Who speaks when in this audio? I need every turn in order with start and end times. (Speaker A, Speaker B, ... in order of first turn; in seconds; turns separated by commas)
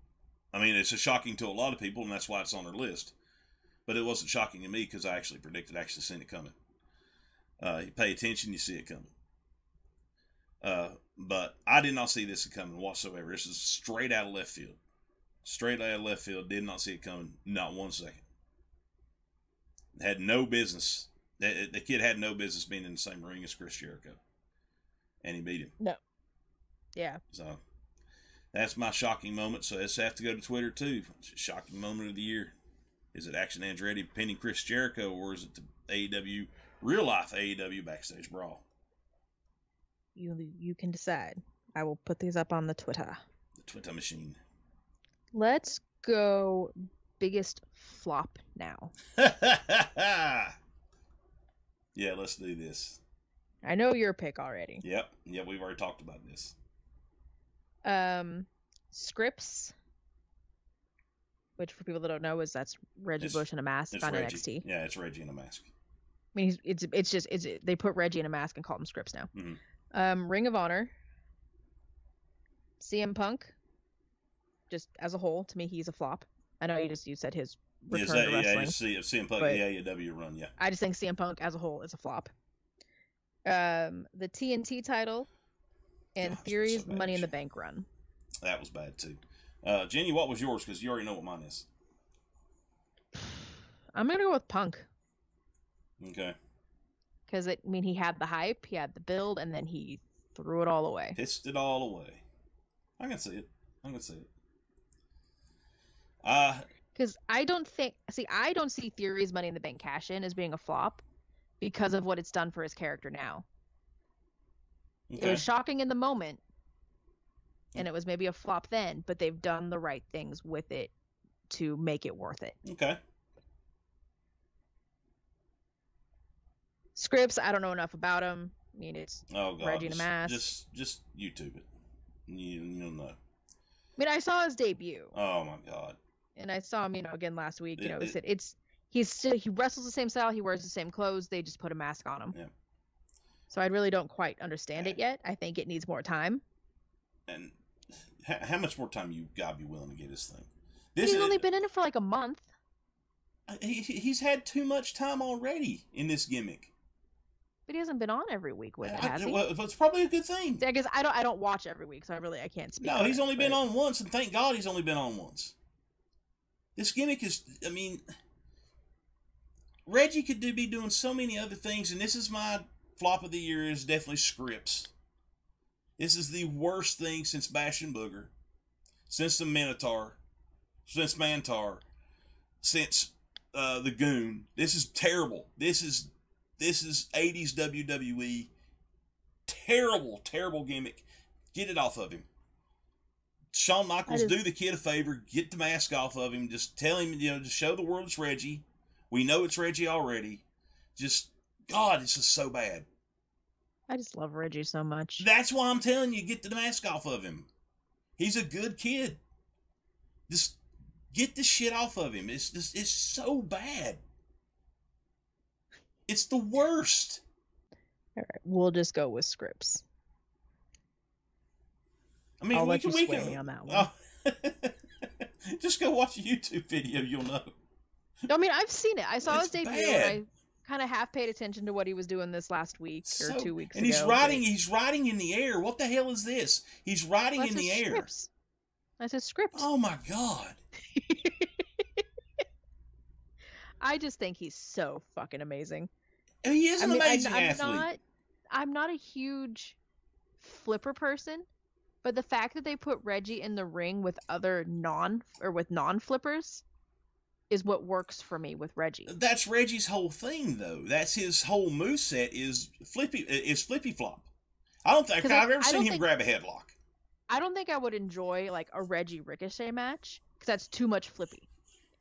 Speaker A: 0.5-3.1, Speaker A: 3.9-6.5, Speaker A: 7.6-9.1, Speaker A: 10.6-14.8, Speaker A: 15.4-18.2, Speaker A: 19.9-24.2, Speaker A: 25.2-25.7, Speaker B: 26.9-27.2, Speaker A: 27.3-27.6, Speaker A: 28.5-32.5, Speaker A: 33.1-38.6, Speaker B: 40.1-43.2, Speaker A: 43.6-44.4, Speaker B: 45.3-48.9, Speaker A: 49.2-50.5, Speaker A: 51.9-53.0, Speaker B: 53.6-54.8, Speaker A: 54.8-56.5, Speaker B: 57.8-59.7, Speaker B: 61.6-64.7, Speaker A: 63.2-65.7, Speaker B: 66.3-69.3, Speaker A: 69.3-69.6, Speaker B: 69.9-70.9, Speaker B: 72.8-73.5, Speaker B: 74.7-78.8, Speaker A: 77.9-80.5, Speaker B: 80.6-82.3, Speaker B: 83.5-85.3, Speaker B: 86.1-87.8, Speaker A: 86.2-87.3, Speaker A: 88.4-91.7, Speaker B: 93.2-94.9, Speaker A: 96.0-96.3, Speaker B: 97.3-101.2, Speaker A: 101.2-102.2, Speaker A: 103.0-104.3, Speaker A: 106.2-106.7, Speaker B: 106.9-111.0, Speaker B: 111.6-113.5, Speaker A: 115.1-115.5, Speaker B: 115.2-116.4, Speaker B: 117.7-120.9, Speaker B: 121.5-122.6, Speaker A: 122.6-123.0, Speaker B: 127.0-130.4, Speaker A: 129.3-131.7, Speaker A: 132.3-133.2, Speaker B: 134.0-135.2, Speaker A: 135.1-136.0, Speaker B: 136.4-142.3, Speaker A: 137.8-138.2, Speaker B: 143.5-146.4, Speaker A: 147.3-151.4, Speaker B: 151.0-152.5, Speaker A: 153.5-156.7, Speaker B: 157.7-159.4, Speaker A: 158.8-160.6, Speaker B: 160.6-163.6, Speaker A: 162.8-165.5, Speaker A: 166.8-168.0, Speaker A: 169.8-174.9, Speaker A: 176.0-178.3, Speaker A: 179.1-180.2, Speaker A: 180.8-181.8, Speaker A: 182.6-188.5, Speaker A: 189.5-192.3, Speaker A: 193.5-200.4, Speaker B: 194.1-194.3, Speaker A: 200.9-202.8, Speaker B: 203.9-205.3, Speaker A: 205.2-207.5, Speaker A: 208.2-209.2, Speaker A: 210.3-210.6, Speaker A: 211.1-214.0, Speaker A: 216.1-217.2, Speaker B: 218.2-219.8, Speaker A: 222.4-227.5, Speaker B: 222.5-223.9, Speaker B: 228.3-234.4, Speaker A: 229.2-230.2, Speaker A: 233.1-238.1, Speaker B: 237.3-238.3, Speaker B: 239.0-239.7, Speaker A: 239.5-240.6, Speaker B: 240.9-242.0, Speaker B: 243.8-245.9, Speaker A: 246.4-247.9, Speaker B: 246.8-248.0, Speaker B: 248.5-249.8, Speaker B: 250.4-251.5, Speaker B: 252.0-256.6, Speaker B: 257.5-259.1, Speaker A: 259.1-264.3, Speaker A: 264.8-266.8, Speaker B: 265.2-266.0, Speaker B: 267.3-271.5